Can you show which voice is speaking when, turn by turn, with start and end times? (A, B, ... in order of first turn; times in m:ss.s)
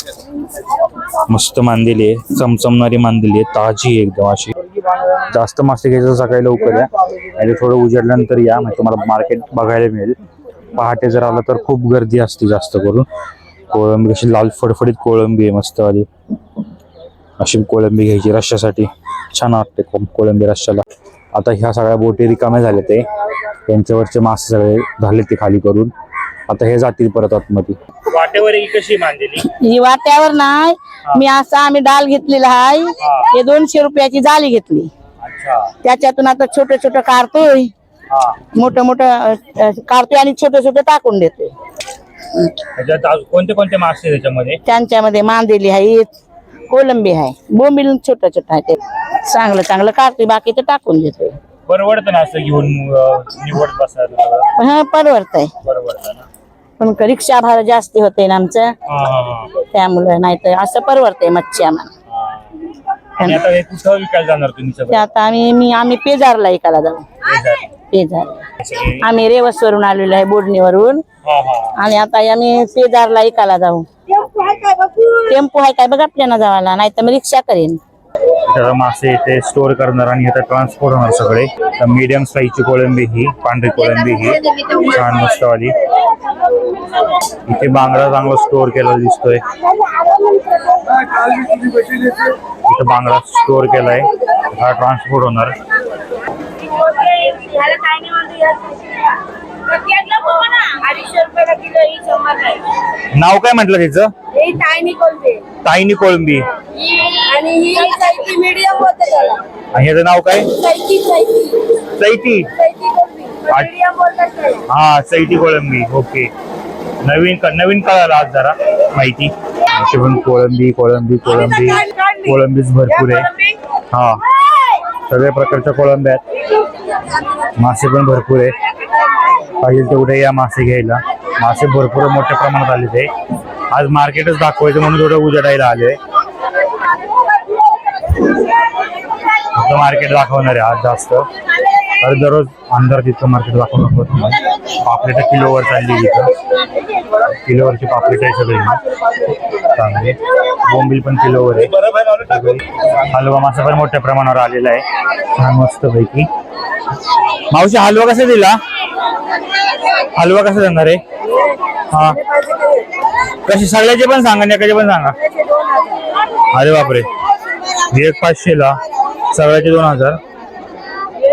0:01.3-0:04.6 A
0:05.2-0:10.2 A
0:10.7-0:13.1 A
0:13.7-0:16.1 A
0:17.4-0:23.1 A
0:23.7-0:25.9 A
0:26.5-0:29.5 A
0:29.4-0:34.9 B
0:33.0-0:33.3 A
0:35.2-0:35.7 A
0:35.8-0:37.7 B
0:38.1-0:38.4 A
0:38.6-0:41.5 B
0:42.8-0:44.6 A
0:44.7-0:46.1 B
0:46.7-0:51.4 B
0:51.7-0:54.5 A
0:54.6-0:55.5 B
0:55.6-0:56.3 A
0:56.8-0:58.7 B
0:58.9-0:59.6 A
0:59.6-1:01.9 B
1:02.1-1:02.5 A
1:03.2-1:05.1 A
1:04.9-1:07.1 B
1:07.2-1:07.7 A
1:07.9-1:08.4 B
1:08.6-1:09.0 A
1:09.0-1:11.0 B
1:11.2-1:11.8 A
1:11.8-1:13.9 B
1:14.3-1:14.7 A
1:14.9-1:17.8 B
1:18.5-1:25.8 A
1:27.5-1:29.4 A
1:31.4-1:32.1 C
1:32.7-1:35.6 A
1:36.6-1:42.7 C
1:43.1-1:44.1 A
1:44.3-1:45.5 C
1:45.6-1:46.5 A
1:46.8-1:49.4 C
1:49.7-1:50.6 A
1:50.5-1:51.7 C
1:51.8-1:52.5 A
1:52.6-1:54.6 C
1:53.5-1:53.7 A
1:54.7-1:56.3 A
1:57.0-2:03.3 A
2:03.9-2:04.2 A
2:05.1-2:06.2 A
2:07.6-2:08.6 A
2:09.6-2:13.1 A
2:13.7-2:16.0 A
2:19.5-2:21.3 A
2:22.0-2:26.3 A
2:27.3-2:28.8 A
2:29.7-2:36.3 A
2:37.5-2:38.6 A
2:40.1-2:41.0 A
2:41.9-2:42.2 A
2:42.3-2:42.9 C
2:43.5-2:45.2 A
2:45.3-2:46.0 C
2:46.5-2:47.1 A
2:47.9-2:48.8 A
2:49.3-2:50.2 A